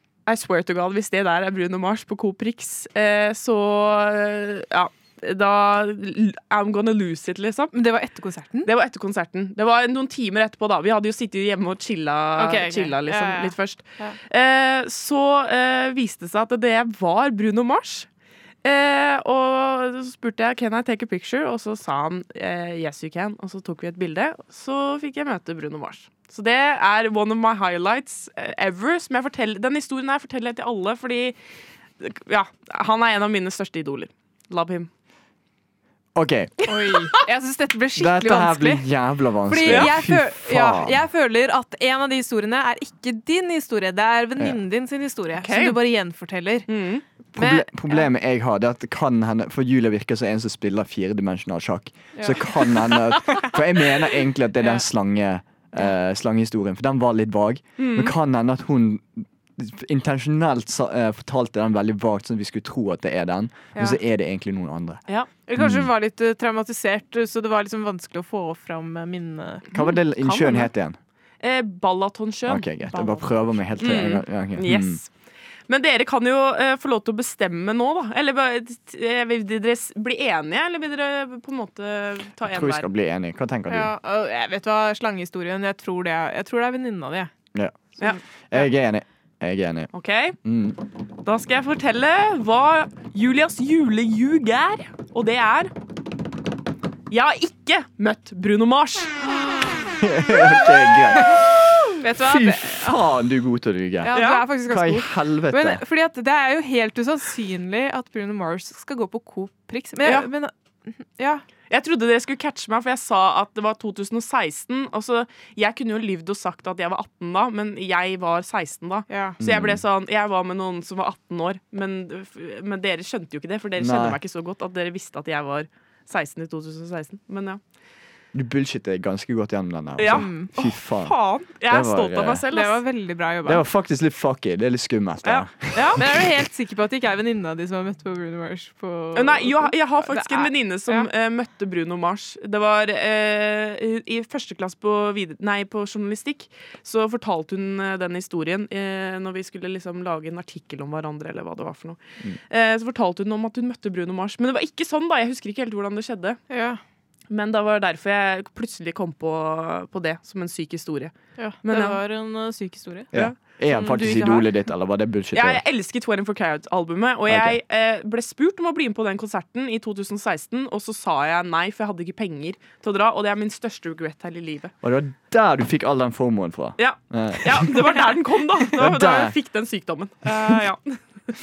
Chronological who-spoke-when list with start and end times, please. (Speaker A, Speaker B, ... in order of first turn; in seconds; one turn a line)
Speaker A: 0.2-7.7
Speaker B: 7.7-8.7
Speaker A: 8.6-18.1
Speaker B: 12.4-14.2
Speaker A: 18.6-31.4
Speaker A: 32.0-34.9
Speaker C: 36.1-36.6
Speaker B: 36.7-38.9
Speaker C: 38.0-41.0
Speaker B: 39.5-46.7
Speaker A: 39.6-39.9
Speaker A: 45.4-45.8
Speaker A: 46.7-47.0
Speaker C: 47.3-65.0
Speaker B: 47.4-48.0
Speaker B: 52.1-53.5
Speaker A: 57.8-58.1
Speaker B: 65.5-70.7
Speaker C: 65.6-65.9
Speaker C: 69.7-71.0
Speaker A: 71.4-72.7
Speaker C: 72.5-75.0
Speaker B: 72.9-73.2
Speaker B: 73.8-74.1
Speaker A: 73.8-75.1
Speaker A: 75.7-82.9
Speaker C: 82.4-83.9
Speaker B: 83.7-87.3
Speaker C: 87.5-87.8
Speaker C: 88.5-89.9
Speaker A: 89.9-90.4
Speaker C: 90.4-90.8
Speaker A: 91.2-95.7
Speaker A: 97.1-99.2
Speaker C: 100.0-101.6
Speaker B: 102.0-103.0
Speaker C: 102.1-104.1
Speaker B: 104.0-111.4
Speaker A: 104.1-104.4
Speaker C: 104.6-105.8
Speaker A: 110.0-110.3
Speaker A: 111.7-127.6
Speaker B: 119.1-119.3
Speaker C: 119.4-119.8
Speaker C: 123.8-124.2
Speaker C: 128.3-132.4
Speaker A: 130.0-132.8
Speaker B: 130.1-130.5
Speaker B: 132.5-133.6
Speaker C: 133.4-136.2
Speaker A: 135.2-136.0
Speaker B: 136.0-141.1
Speaker A: 139.1-156.4
Speaker B: 156.5-156.8
Speaker A: 157.3-162.0
Speaker B: 161.4-163.1
Speaker C: 163.1-165.6
Speaker B: 163.7-164.5
Speaker A: 165.3-174.7
Speaker C: 167.3-167.6
Speaker C: 174.8-178.0
Speaker A: 176.8-181.3
Speaker C: 178.7-179.3
Speaker C: 180.3-180.6